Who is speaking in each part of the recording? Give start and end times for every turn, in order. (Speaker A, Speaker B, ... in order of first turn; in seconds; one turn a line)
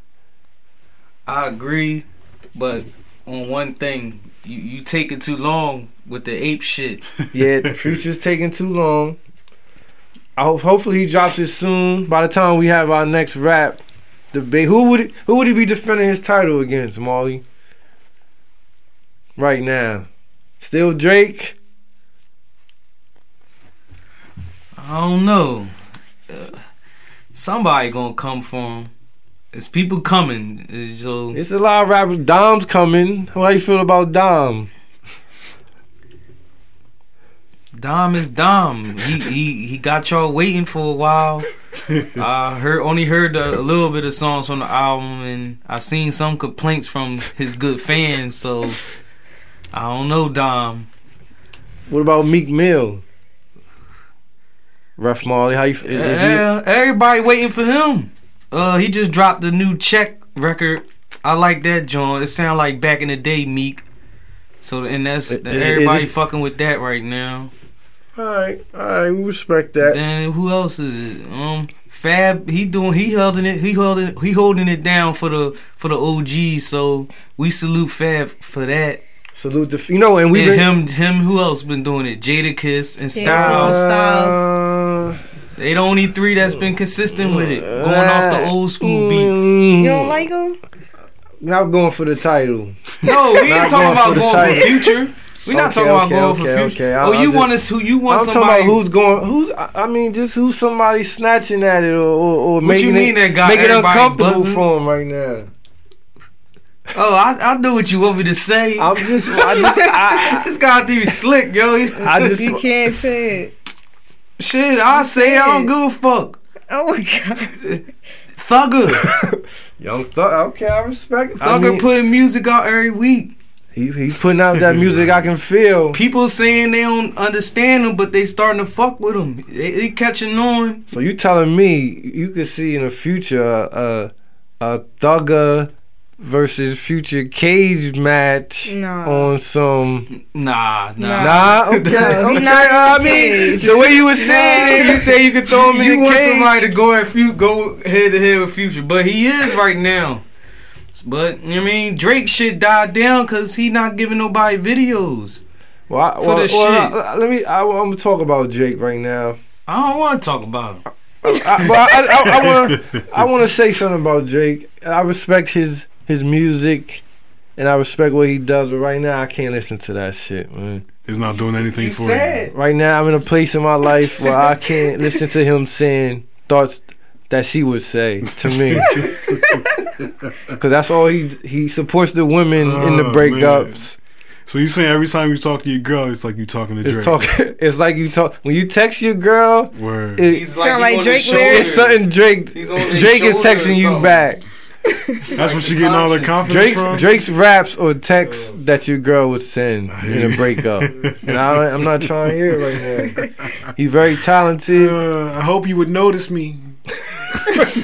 Speaker A: 1.3-7.1
Speaker B: 7.3-9.2
Speaker B: 10.4-13.8
Speaker B: 14.3-17.4
Speaker B: 19.4-20.1
Speaker B: 20.6-21.6
Speaker A: 24.8-25.7
Speaker A: 26.3-26.6
Speaker A: 27.3-28.9
Speaker A: 29.5-31.4
Speaker B: 31.3-34.7
Speaker A: 37.8-41.5
Speaker C: 41.9-42.2
Speaker A: 42.1-48.8
Speaker A: 49.7-50.9
Speaker B: 51.9-53.0
Speaker B: 55.0-56.5
Speaker A: 55.8-63.8
Speaker A: 64.6-67.5
Speaker B: 65.3-66.1
Speaker B: 68.2-70.0
Speaker A: 69.8-79.0
Speaker B: 79.4-80.7
Speaker A: 80.3-83.8
Speaker D: 83.1-84.4
Speaker B: 83.2-85.2
Speaker A: 85.6-89.6
Speaker B: 87.2-90.2
Speaker D: 89.8-90.6
Speaker B: 91.4-94.9
Speaker A: 93.0-98.8
Speaker B: 95.5-97.5
Speaker B: 98.1-105.5
Speaker A: 102.6-104.7
Speaker A: 106.9-112.3
Speaker B: 108.8-110.5
Speaker D: 109.5-109.8
Speaker B: 112.0-112.7
Speaker D: 112.1-113.5
Speaker A: 114.4-116.4
Speaker D: 114.9-115.7
Speaker D: 116.7-117.6
Speaker A: 118.3-119.2
Speaker B: 119.8-121.8
Speaker A: 121.4-123.3
Speaker B: 123.8-126.0
Speaker C: 124.6-125.2
Speaker A: 125.9-130.8
Speaker B: 130.9-140.1
Speaker D: 138.7-139.3
Speaker A: 140.1-150.2
Speaker D: 141.0-145.1
Speaker B: 141.2-146.7
Speaker A: 150.9-155.4
Speaker B: 155.9-159.4
Speaker A: 156.2-157.0
Speaker A: 159.7-160.8
Speaker B: 161.2-167.0
Speaker C: 162.1-163.0
Speaker B: 167.6-170.9
Speaker C: 171.0-172.5
Speaker A: 171.4-172.5
Speaker B: 172.5-179.2
Speaker C: 178.4-179.6
Speaker B: 180.5-184.0
Speaker C: 182.6-183.8
Speaker C: 184.5-187.2
Speaker B: 186.8-190.5
Speaker C: 189.7-190.3
Speaker A: 190.3-194.2
Speaker D: 190.6-191.9
Speaker B: 191.3-194.4
Speaker D: 194.9-195.3
Speaker C: 195.3-197.1
Speaker A: 195.4-197.0
Speaker B: 196.5-205.0
Speaker C: 199.9-202.6
Speaker C: 204.7-207.4